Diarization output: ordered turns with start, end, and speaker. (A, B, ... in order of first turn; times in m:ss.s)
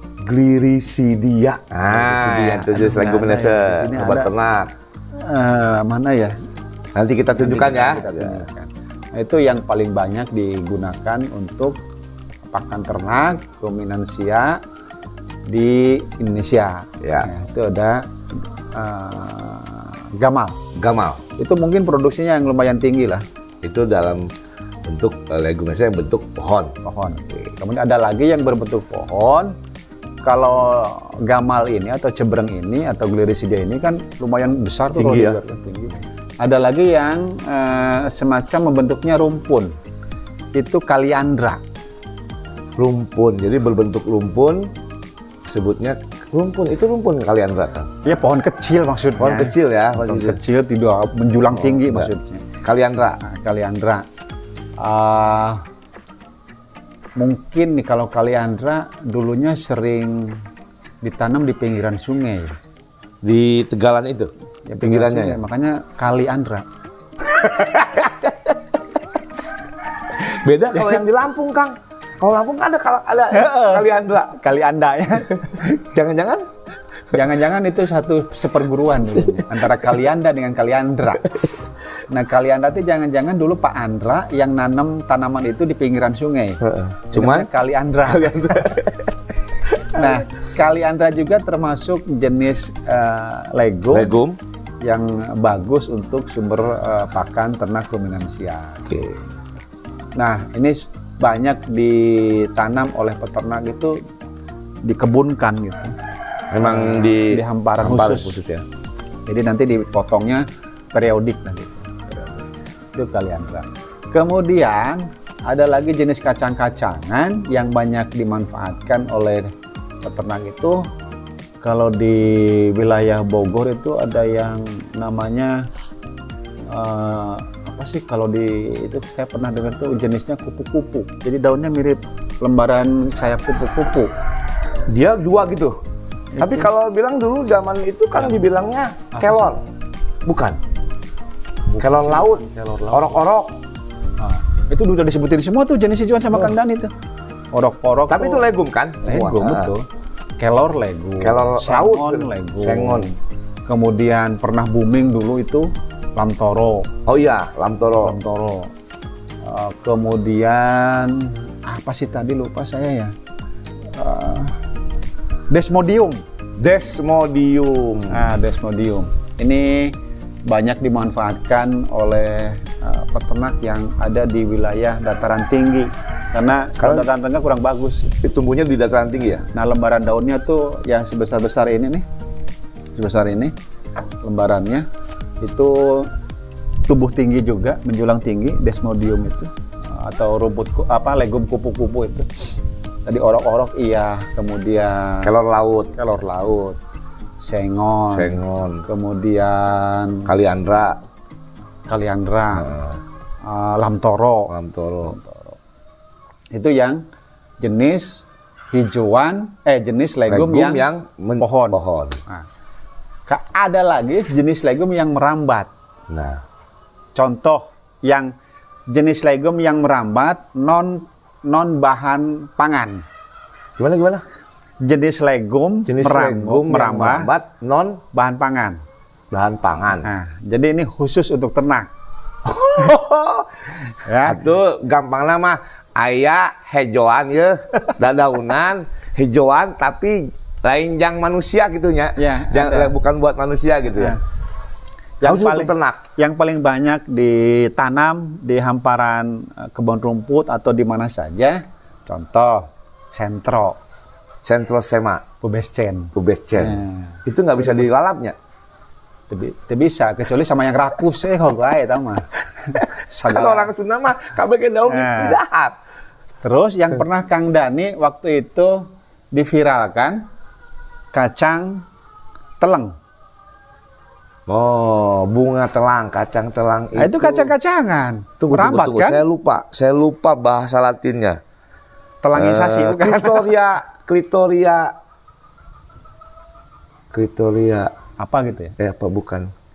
0:00.2-0:04.7 A
0:01.9-0:04.3 B
0:05.2-0:06.3 B
0:06.9-0:08.4 A
0:07.3-0:11.8 B
0:12.4-0:14.6 B
0:15.5-0:20.6 B
0:17.0-0:17.3 A
0:20.7-0:21.2 A
0:21.4-0:23.2 B
0:23.6-0:24.3 A
0:24.8-0:26.7 A
0:26.8-0:29.5 B
0:30.2-0:39.7 B
0:34.9-0:35.4 A
0:40.5-0:41.6 B
0:42.8-0:44.7 A
0:45.4-0:47.9 A
0:48.0-0:52.4 B
0:49.2-0:50.4 A
0:51.5-0:52.1 A
0:52.6-0:53.2 A
0:53.2-0:54.0 B
0:54.8-0:55.6 B
0:57.2-1:00.4 B
1:01.0-1:02.6 B
1:03.2-1:05.4 A
1:04.7-1:06.6 B
1:07.2-1:08.6 A
1:10.1-1:14.3 A
1:13.3-1:15.8 B
1:15.8-1:16.4 A
1:17.1-1:21.3 B
1:19.0-1:19.6 A
1:22.1-1:28.8 B
1:26.6-1:27.5 A
1:28.0-1:29.1 A
1:29.9-1:34.1 B
1:33.9-1:34.4 A
1:34.8-1:38.9 B
1:38.9-1:39.2 A
1:40.2-1:44.0 B
1:44.8-1:45.9 B
1:46.5-1:48.6 A
1:46.6-1:48.4 B
1:49.2-1:59.5 B
2:00.0-2:00.8 B
2:01.6-2:05.6 B
2:06.7-2:14.1 B
2:14.9-2:15.8 A
2:16.4-2:16.7 B
2:16.4-2:19.6 A
2:19.1-2:19.5 B
2:20.2-2:20.6 A
2:21.7-2:23.2 B
2:21.8-2:23.6 A
2:24.2-2:26.9 B
2:27.5-2:28.4 B
2:28.1-2:29.7 A
2:29.0-2:29.8 B
2:30.4-2:36.9 B
2:31.2-2:33.1 A
2:37.0-2:38.2 A
2:38.0-2:38.7 B
2:39.4-2:43.1 B
2:43.9-2:44.5 B
2:45.5-2:46.2 B
2:46.6-2:48.3 A
2:48.1-2:58.1 B
2:56.8-2:57.1 A
2:58.1-2:59.4 A
2:59.4-3:02.0 B
3:03.0-3:03.5 B
3:04.2-3:04.8 B
3:05.4-3:06.1 B
3:06.8-3:12.3 B
3:13.0-3:15.3 B
3:15.2-3:15.9 A
3:15.9-3:16.8 B
3:17.4-3:20.3 B
3:18.1-3:18.8 A
3:20.2-3:21.0 A
3:21.9-3:22.8 B
3:22.6-3:23.0 A
3:23.4-3:24.5 B
3:24.5-3:25.2 A
3:25.0-3:25.6 B
3:26.5-3:27.0 B
3:27.6-3:30.9 B
3:30.3-3:32.2 A
3:31.4-3:32.4 B
3:33.3-3:35.7 B
3:36.1-3:36.4 A
3:37.1-3:38.3 B
3:38.9-3:43.0 B
3:43.8-3:44.2 A
3:44.8-3:47.3 B
3:45.9-3:48.0 A
3:48.1-3:48.8 B
3:49.3-3:50.1 A
3:50.0-3:51.9 B
3:52.4-3:53.5 A
3:53.9-3:54.4 B
3:54.2-4:04.2 A
4:02.2-4:02.9 B
4:03.9-4:04.2 B
4:05.2-4:13.8 B
4:05.2-4:06.0 A
4:14.4-4:15.2 A
4:15.4-4:17.9 B
4:16.1-4:18.3 A
4:19.3-4:23.7 B
4:22.7-4:25.8 A
4:24.9-4:25.4 B
4:26.4-4:28.8 B
4:29.3-4:30.2 B
4:31.1-4:31.8 B
4:32.6-4:32.9 B
4:34.5-4:37.5 A
4:37.0-4:39.2 B
4:38.4-4:41.4 A
4:42.2-4:43.5 B
4:42.4-4:44.9 A
4:47.1-4:47.9 A
4:48.2-4:48.8 B
4:48.8-4:49.5 A